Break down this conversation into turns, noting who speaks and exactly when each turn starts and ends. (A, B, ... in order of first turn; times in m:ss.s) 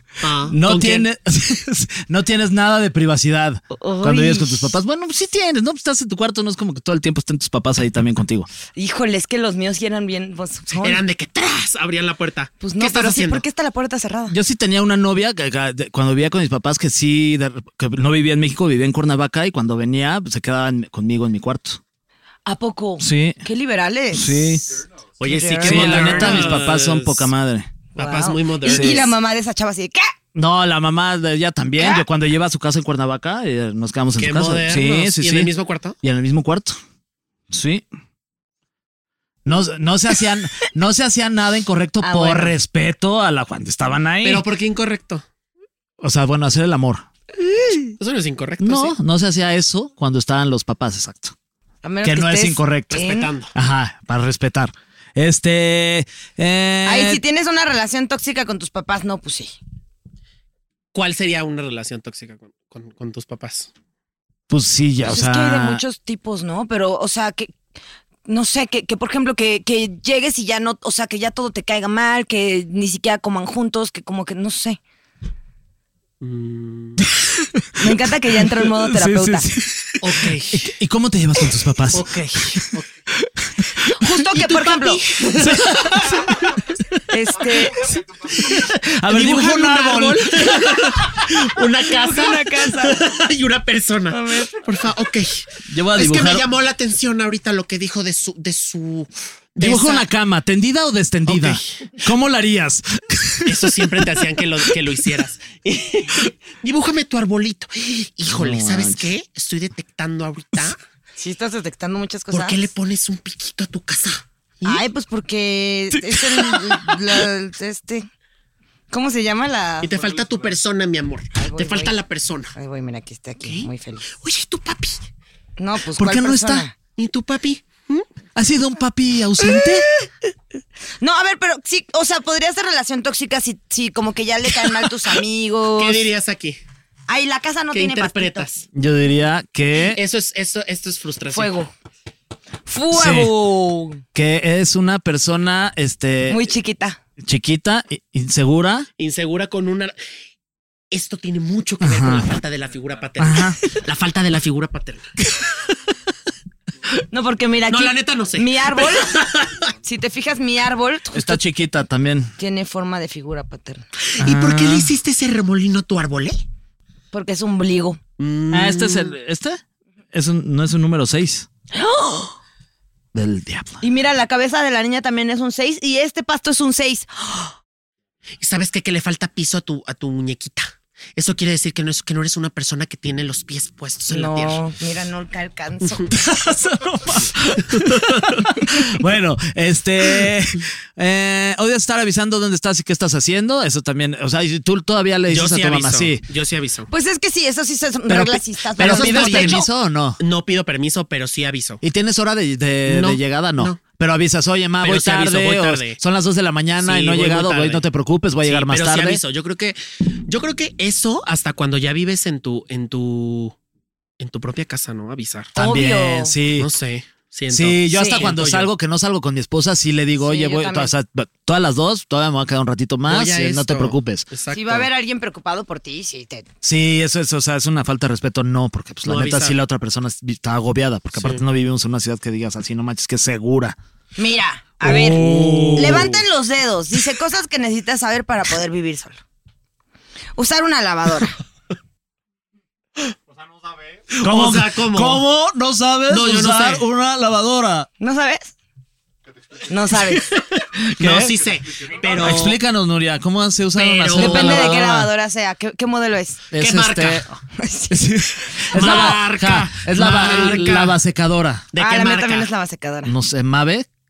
0:00.2-0:01.1 A
0:00.5-0:08.5 B
0:03.7-0:04.7 C
0:08.8-0:11.0 C
0:10.7-0:13.4 A
0:12.6-0:14.4 C
0:14.3-0:21.8 B
0:22.5-0:24.6 C
0:23.0-0:23.4 B
0:24.1-0:24.6 B
0:25.2-0:27.3 A
0:25.3-0:26.5 C
0:25.6-0:27.7 B
0:28.0-0:29.1 A
0:28.0-0:30.1 C
0:28.6-0:29.1 B
0:30.4-0:35.5 B
0:31.8-0:32.0 C
0:34.2-0:36.0 A
0:36.0-0:36.8 B
0:37.5-0:37.9 B
0:39.4-0:44.5 B
0:42.0-0:42.6 C
0:44.2-0:45.2 A
0:46.0-0:48.0 B
0:48.0-0:49.0 A
0:48.6-0:51.3 B
0:51.8-0:53.3 C
0:52.0-0:57.2 B
0:52.9-0:53.5 A
0:56.8-0:59.6 C
1:00.9-1:03.7 A
1:04.5-1:05.8 B
1:05.0-1:07.5 C
1:08.3-1:14.8 C
1:16.2-1:17.0 A
1:17.2-1:23.9 B
1:17.8-1:19.5 C
1:20.0-1:20.7 A
1:21.9-1:22.9 A
1:23.9-1:25.0 C
1:24.3-1:26.4 A
1:25.4-1:27.0 B
1:27.1-1:27.9 C
1:28.3-1:31.4 B
1:28.3-1:40.1 A
1:31.9-1:33.0 C
1:34.1-1:34.6 C
1:35.7-1:36.5 B
1:39.6-1:44.0 B
1:41.3-1:41.8 A
1:43.4-1:50.8 A
1:48.3-1:49.1 B
1:51.2-1:52.7 C
1:52.3-1:54.8 A
1:54.7-1:58.1 C
1:55.9-1:57.2 B
1:58.9-1:59.9 C
1:59.8-2:02.5 A
2:01.4-2:02.0 C
2:02.6-2:04.1 C
2:03.4-2:05.0 A
2:05.6-2:06.7 C
2:06.0-2:06.6 B
2:07.0-2:08.1 A
2:08.4-2:09.9 B
2:11.0-2:16.1 C
2:15.8-2:16.6 A
2:17.1-2:18.5 C
2:17.7-2:18.7 A
2:18.7-2:20.0 B
2:19.9-2:21.5 A
2:21.3-2:21.7 C
2:22.7-2:24.0 C
2:22.9-2:23.3 B
2:24.2-2:26.4 B
2:26.3-2:27.0 C
2:27.2-2:28.9 B
2:29.0-2:30.0 A
2:30.9-2:35.1 A
2:31.8-2:32.3 B
2:33.2-2:33.6 B
2:37.1-2:39.2 C
2:37.7-2:39.7 A
2:39.8-2:41.4 C
2:41.1-2:42.3 B
2:42.4-2:43.8 C
2:44.1-2:46.4 A
2:44.2-2:44.9 B
2:47.1-2:48.0 C
2:48.2-2:49.2 A
2:48.5-2:49.6 B
2:50.1-2:51.5 B
2:51.7-2:52.4 C
2:53.1-2:53.8 B
2:53.8-2:57.6 C
2:58.4-3:04.6 A
3:04.1-3:06.2 C
3:06.1-3:16.2 B
3:15.3-3:16.9 A
3:16.9-3:19.7 C
3:18.1-3:20.2 B
3:18.8-3:19.6 A
3:20.2-3:21.8 A
3:21.8-3:29.2 B
3:22.9-3:23.8 A
3:24.8-3:26.0 A
3:26.8-3:27.8 A
3:28.4-3:33.6 A
3:34.2-3:35.5 A
3:35.6-3:36.4 C
3:35.6-3:36.7 B
3:36.6-3:38.7 A
3:37.5-3:44.2 B
3:37.9-3:38.3 C
3:40.2-3:41.0 C
3:43.1-3:44.9 A
3:44.5-3:46.5 C
3:46.6-3:53.8 B
3:49.0-3:49.6 A
3:51.2-3:51.4 A
3:54.2-3:55.2 C
3:54.8-3:56.1 B
3:54.9-3:56.2 A
3:55.8-3:59.2 C
4:00.4-4:01.4 C
4:04.1-4:05.2 A
4:04.1-4:07.9 B
4:06.1-4:06.8 A
4:08.0-4:08.5 C
4:09.7-4:10.3 C
4:10.1-4:12.6 A
4:10.8-4:11.3 B
4:12.1-4:15.1 B
4:13.8-4:14.8 A
4:14.2-4:16.4 C
4:16.5-4:17.3 B
4:16.6-4:17.3 A
4:17.6-4:18.1 C
4:17.9-4:21.7 B
4:18.7-4:19.2 C
4:18.7-4:21.0 A
4:20.3-4:20.6 C
4:21.7-4:22.5 A
4:21.8-4:23.1 C
4:23.0-4:23.9 B